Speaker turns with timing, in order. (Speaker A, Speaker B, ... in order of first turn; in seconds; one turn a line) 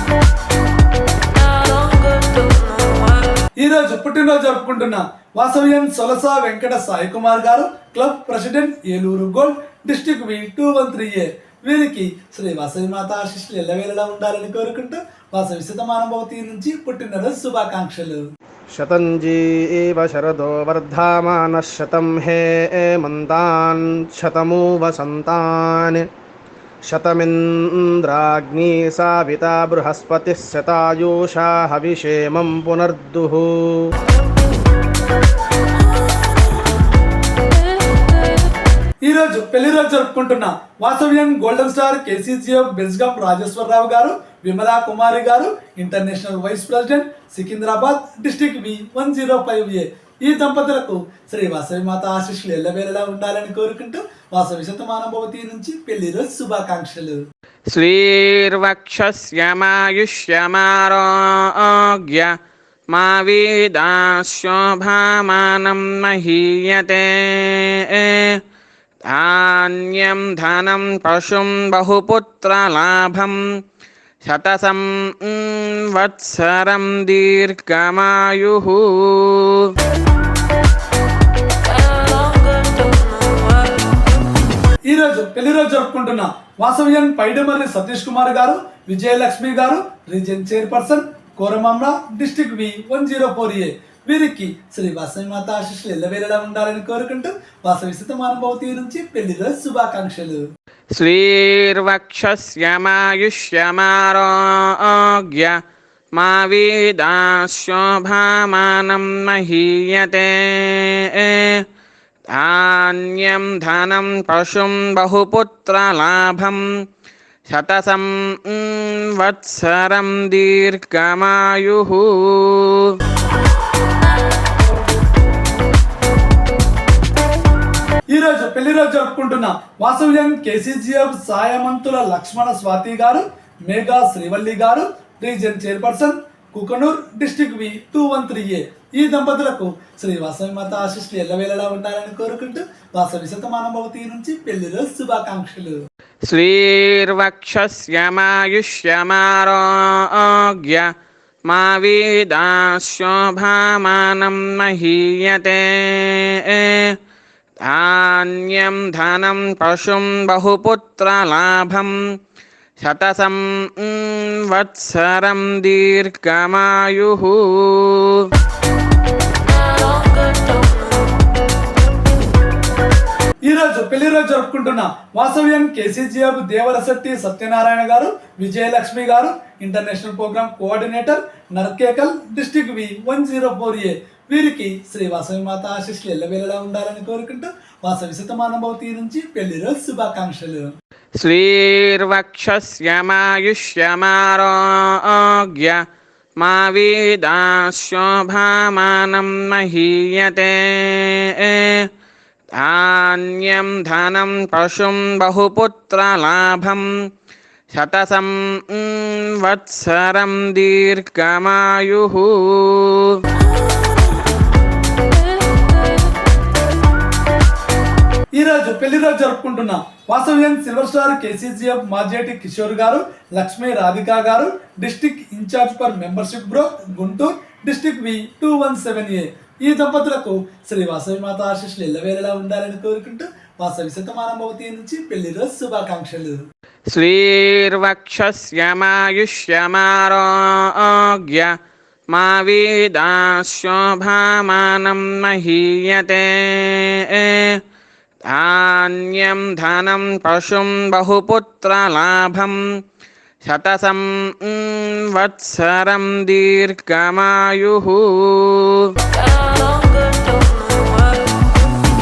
Speaker A: 3.6-18.2
Speaker B: 18.7-26.0
Speaker B: 26.9-33.9
Speaker A: 39.0-57.2
Speaker C: 57.7-62.3
Speaker C: 62.9-68.4
Speaker C: 69.0-73.5
Speaker C: 74.2-79.7
Speaker C: 82.0-83.0
Speaker A: 84.9-100.4
Speaker C: 101.0-105.6
Speaker C: 106.1-111.6
Speaker C: 112.3-116.7
Speaker C: 117.5-123.0
Speaker A: 128.1-145.8
Speaker C: 146.3-150.9
Speaker C: 151.5-157.0
Speaker C: 157.6-162.1
Speaker C: 162.8-168.3
Speaker C: 169.8-170.7
Speaker A: 173.4-190.7
Speaker C: 191.2-195.8
Speaker C: 196.4-201.9
Speaker C: 202.5-206.9
Speaker C: 207.7-213.2
Speaker A: 218.4-236.4
Speaker C: 236.9-241.5
Speaker C: 242.1-247.6
Speaker C: 248.2-252.7
Speaker C: 253.4-260.9